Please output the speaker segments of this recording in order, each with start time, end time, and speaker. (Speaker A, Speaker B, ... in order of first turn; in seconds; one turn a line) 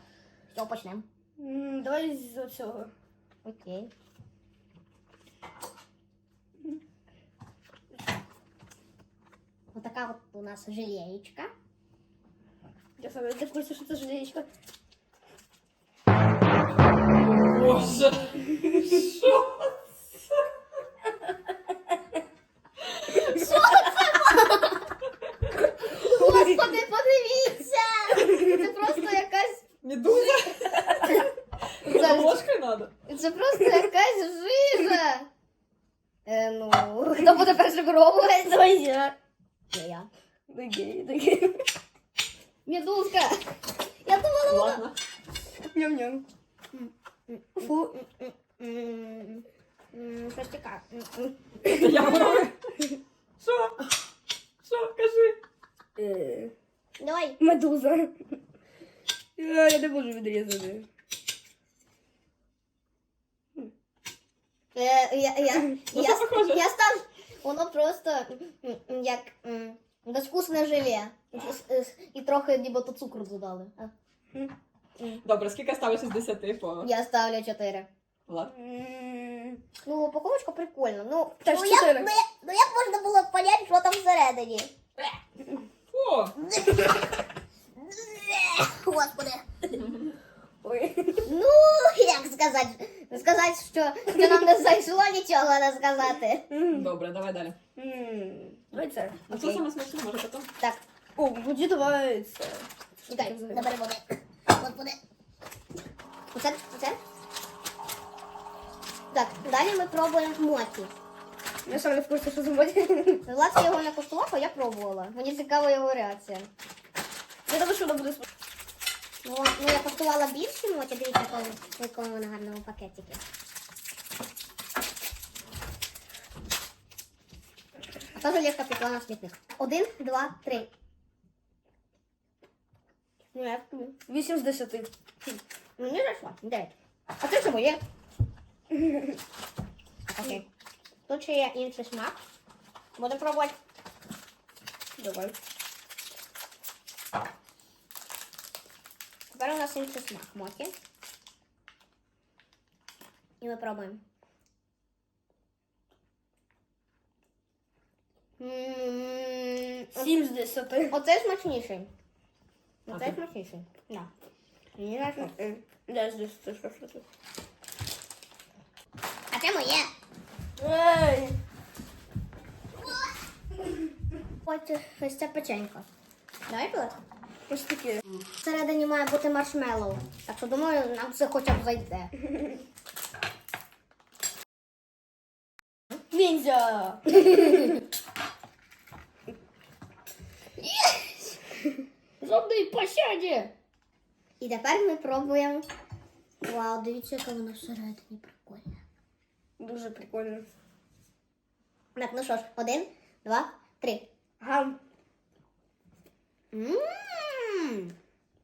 Speaker A: 0.5-1.1
Speaker B: 1.4-2.9
Speaker A: 3.4-3.9
Speaker A: 9.7-11.5
Speaker B: 13.0-14.5
Speaker C: 17.4-19.8
Speaker A: 23.1-24.9
Speaker A: 25.6-29.6
Speaker C: 29.8-32.9
Speaker B: 30.7-31.0
Speaker A: 31.8-32.5
Speaker A: 33.1-35.3
Speaker A: 36.3-38.6
Speaker B: 38.4-39.1
Speaker A: 39.7-40.1
Speaker B: 40.5-41.6
Speaker A: 42.7-43.4
Speaker A: 44.0-44.9
Speaker C: 44.5-45.0
Speaker B: 45.7-46.2
Speaker A: 46.7-51.7
Speaker C: 51.6-52.6
Speaker C: 53.4-53.9
Speaker C: 54.6-55.4
Speaker B: 56.0-56.5
Speaker A: 57.0-57.4
Speaker B: 57.4-58.2
Speaker B: 59.4-60.9
Speaker A: 64.8-73.9
Speaker C: 65.9-66.6
Speaker C: 75.2-76.9
Speaker A: 76.8-77.9
Speaker C: 78.3-78.5
Speaker B: 78.5-79.6
Speaker A: 79.8-84.7
Speaker B: 81.4-82.1
Speaker C: 85.9-86.4
Speaker A: 86.5-86.9
Speaker A: 87.8-89.4
Speaker B: 90.6-91.3
Speaker A: 91.3-96.5
Speaker B: 96.5-96.9
Speaker C: 96.7-97.6
Speaker B: 97.8-99.2
Speaker C: 99.3-100.5
Speaker A: 99.3-99.7
Speaker B: 101.2-103.7
Speaker A: 103.1-105.0
Speaker A: 106.3-107.0
Speaker A: 109.1-110.9
Speaker B: 111.7-113.2
Speaker A: 113.2-116.5
Speaker B: 117.5-118.3
Speaker A: 119.2-123.2
Speaker A: 128.1-130.7
Speaker A: 133.3-134.0
Speaker B: 134.1-134.9
Speaker A: 135.8-137.8
Speaker B: 138.8-139.1
Speaker A: 140.1-140.4
Speaker A: 141.1-142.2
Speaker A: 143.0-143.6
Speaker B: 145.0-145.3
Speaker A: 149.3-150.7
Speaker A: 153.4-154.0
Speaker A: 158.4-160.1
Speaker B: 159.9-161.0
Speaker A: 160.9-161.9
Speaker A: 162.9-164.1
Speaker A: 164.8-165.4
Speaker B: 165.2-167.0
Speaker A: 169.3-169.9
Speaker B: 170.6-171.4
Speaker A: 174.4-175.9
Speaker A: 176.5-177.0
Speaker B: 177.5-178.0
Speaker A: 178.4-182.1
Speaker B: 186.1-187.6
Speaker A: 190.8-191.3
Speaker B: 192.2-193.5
Speaker A: 194.4-195.7
Speaker A: 196.4-198.8
Speaker B: 199.6-200.4
Speaker A: 201.9-204.1
Speaker B: 204.4-204.8
Speaker A: 206.5-207.9